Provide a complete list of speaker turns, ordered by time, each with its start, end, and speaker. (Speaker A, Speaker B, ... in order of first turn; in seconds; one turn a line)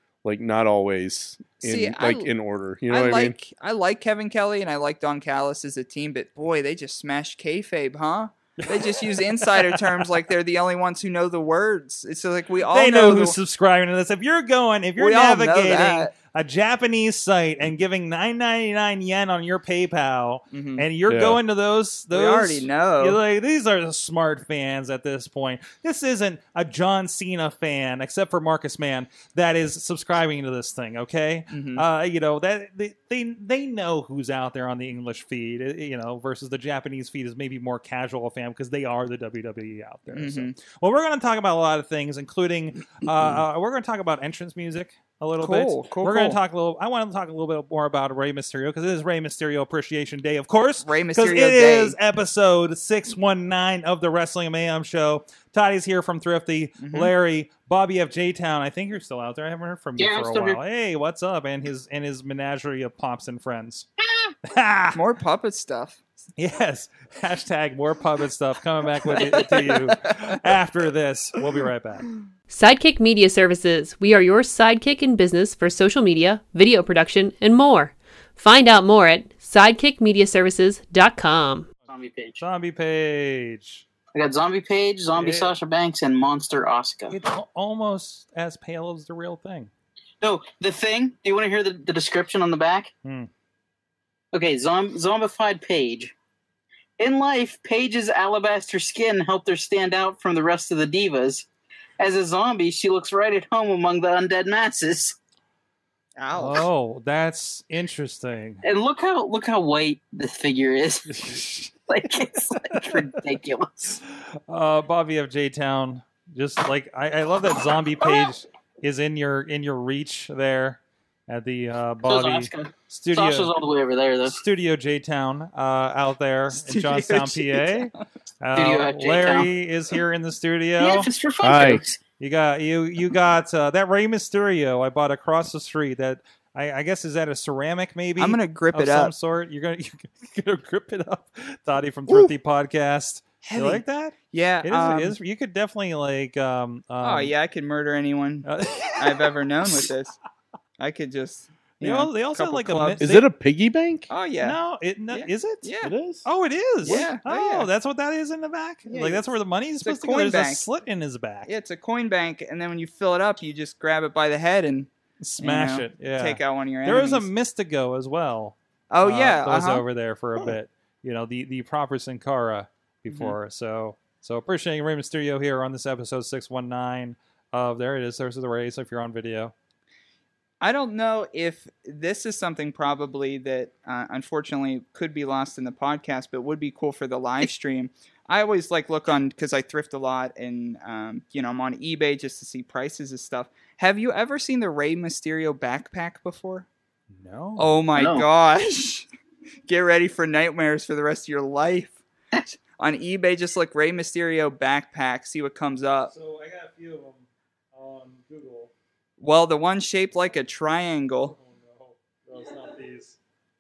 Speaker A: 0.2-3.4
Speaker B: 1.6-2.3
Speaker B: 2.9-13.4
Speaker C: 8.6-10.1
Speaker C: 12.7-63.9
Speaker B: 15.0-16.1
Speaker B: 20.5-20.9
Speaker A: 21.1-21.4
Speaker B: 22.1-23.2
Speaker B: 31.5-31.9
Speaker B: 40.1-40.5
Speaker A: 43.2-43.4
Speaker B: 45.4-46.4
Speaker B: 50.8-52.0
Speaker B: 56.8-57.1
Speaker D: 60.0-60.6
Speaker C: 64.5-65.0
Speaker B: 64.9-66.0
Speaker C: 66.4-72.1
Speaker D: 69.2-69.8
Speaker E: 72.5-81.7
Speaker D: 81.9-82.4
Speaker C: 82.4-83.8
Speaker D: 84.1-87.2
Speaker C: 85.1-85.5
Speaker C: 87.1-89.7
Speaker D: 90.2-92.9
Speaker C: 93.0-93.3
Speaker D: 94.3-96.1
Speaker D: 97.0-101.5
Speaker D: 102.0-105.2
Speaker B: 106.2-106.7
Speaker C: 106.3-108.6
Speaker D: 108.6-111.2
Speaker C: 111.1-111.7
Speaker D: 111.9-114.0
Speaker C: 112.5-113.1
Speaker C: 114.5-123.5
Speaker D: 118.0-118.3
Speaker D: 122.0-124.4
Speaker C: 124.3-131.1
Speaker B: 126.5-128.0
Speaker D: 128.6-129.5
Speaker D: 130.8-132.0
Speaker A: 131.4-131.8
Speaker C: 132.2-147.3
Speaker B: 138.2-139.1
Speaker B: 143.4-145.2
Speaker B: 147.0-150.2
Speaker C: 148.4-149.8
Speaker B: 150.8-153.0
Speaker C: 151.8-153.3
Speaker A: 153.0-154.1
Speaker B: 154.1-155.9
Speaker C: 154.4-155.7
Speaker A: 155.8-156.3
Speaker C: 156.2-161.5
Speaker B: 156.8-157.7
Speaker B: 158.9-159.3
Speaker B: 159.8-160.7
Speaker B: 161.5-167.3
Speaker C: 165.2-179.5
Speaker B: 168.9-169.8
Speaker B: 173.1-173.4
Speaker B: 180.6-196.7
Speaker C: 197.1-197.8
Speaker B: 197.6-199.1
Speaker D: 198.0-198.3
Speaker B: 199.7-202.0
Speaker B: 202.5-206.1
Speaker C: 206.1-208.7
Speaker B: 209.2-211.4
Speaker C: 211.3-213.2